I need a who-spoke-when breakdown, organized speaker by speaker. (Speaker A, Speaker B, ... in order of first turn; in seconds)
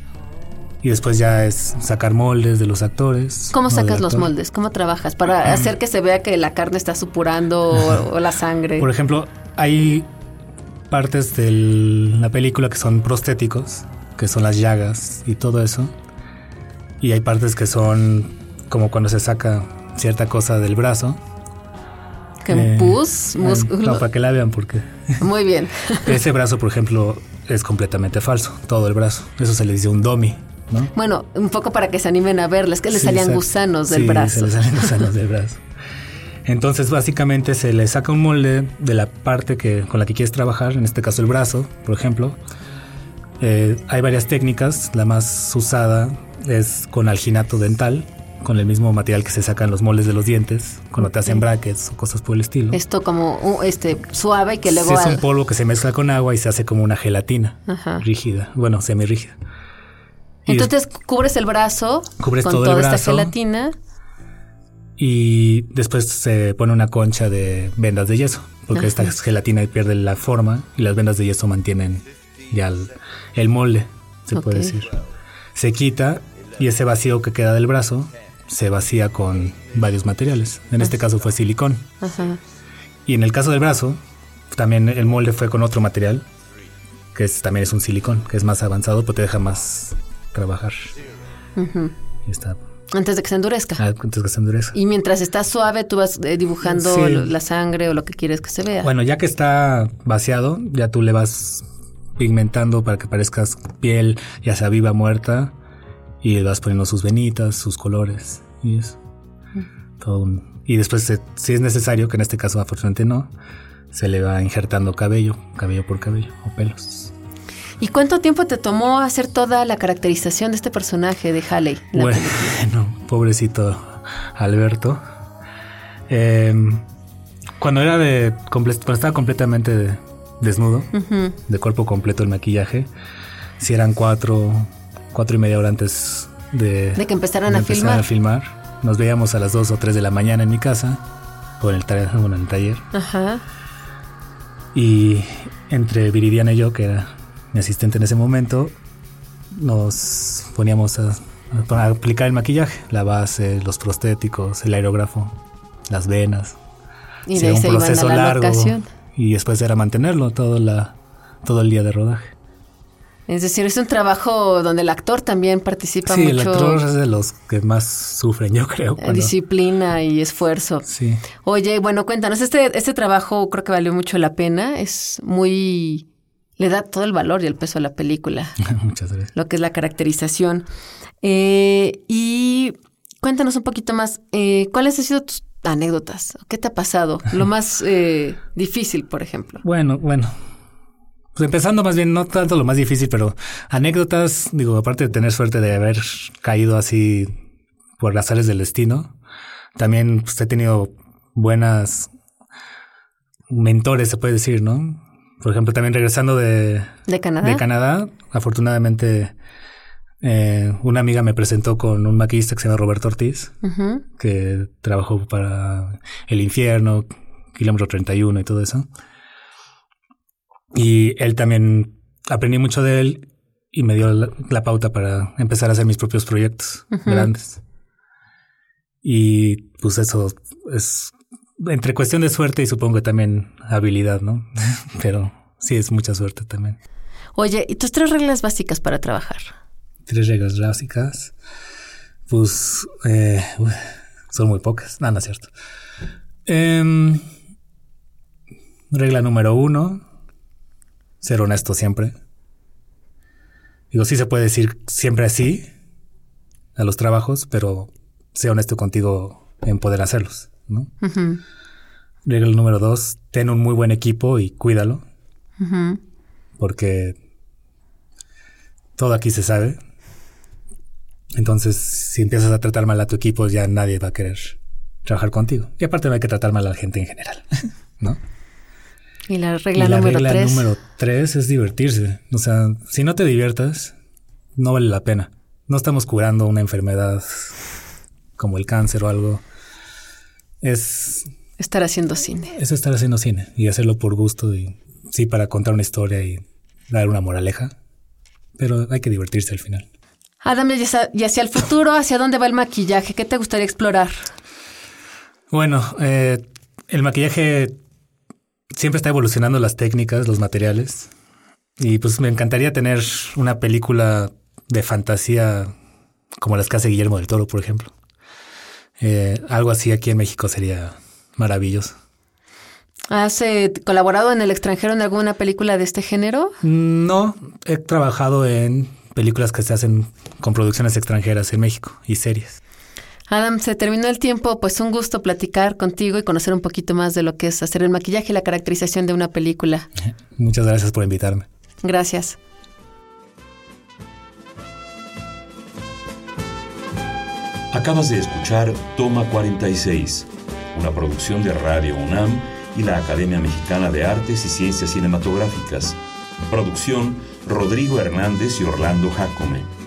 Speaker A: 0.8-4.3, 8.8-10.1, 10.9-15.9, 17.0-21.2, 22.5-25.2, 26.1-30.9, 32.9-35.6, 36.5-42.4, 43.4-52.8, 54.7-59.4, 62.2-63.3, 65.0-75.0, 75.5-81.9, 83.1-84.0, 84.5-86.2, 87.2-90.9, 92.3-92.6, 93.8-94.8, 96.6-97.3, 98.8-105.5, 106.2-109.0, 110.0-113.3, 113.9-117.1, 121.9-125.0, 126.1-126.8, 127.6-130.9, 131.5-132.9, 133.6-141.0, 141.6-142.8, 144.7-148.7, 149.5-155.4, 155.9-156.6, 157.3-162.3, 166.1-169.3, 170.9-171.2, 178.6-179.3, 189.6-190.3, 191.3-197.3, 198.0-199.2, 199.8-202.1, 203.5-209.3, 210.2-213.5, 214.2-218.9, 220.7-227.6, 229.0-236.8, 240.1-241.3, 242.3-245.5, 246.5-247.2, 248.9-250.0, 251.2-252.2, 253.9-255.7, 256.8-260.9, 262.3-265.0, 266.6-267.2, 269.0-269.8, 271.4-278.2, 279.8-283.9, 284.6-287.6, 288.4-289.4, 290.6-291.3, 292.6-297.7, 298.6-299.9, 305.5-307.8, 308.8-311.1, 311.8-315.7, 316.4-317.9, 319.0-321.9, 326.6-332.6, 340.4-341.5
Speaker B: 3.5-8.9, 22.4-24.1, 25.2-26.2, 30.9-35.1, 51.0-51.4, 52.7-55.2, 57.7-58.0, 60.5-63.7, 68.8-69.0, 74.3-74.8, 82.0-82.4, 91.6-91.9, 92.9-93.8, 94.7-98.9, 117.8-122.6, 130.9-131.4, 137.0-138.1, 142.9-143.4, 157.3-158.9, 163.3-166.8, 169.0-170.9, 171.4-176.1, 176.6-178.6, 179.3-180.7, 181.2-189.6, 207.1-207.7, 213.6-214.1, 226.9-227.3, 237.3-239.5, 261.0-261.4, 265.6-266.0, 279.3-280.7, 291.6-292.6, 300.4-304.3, 323.1-326.6, 333.3-339.9, 341.8-342.4
Speaker C: 347.7-356.0, 356.5-359.7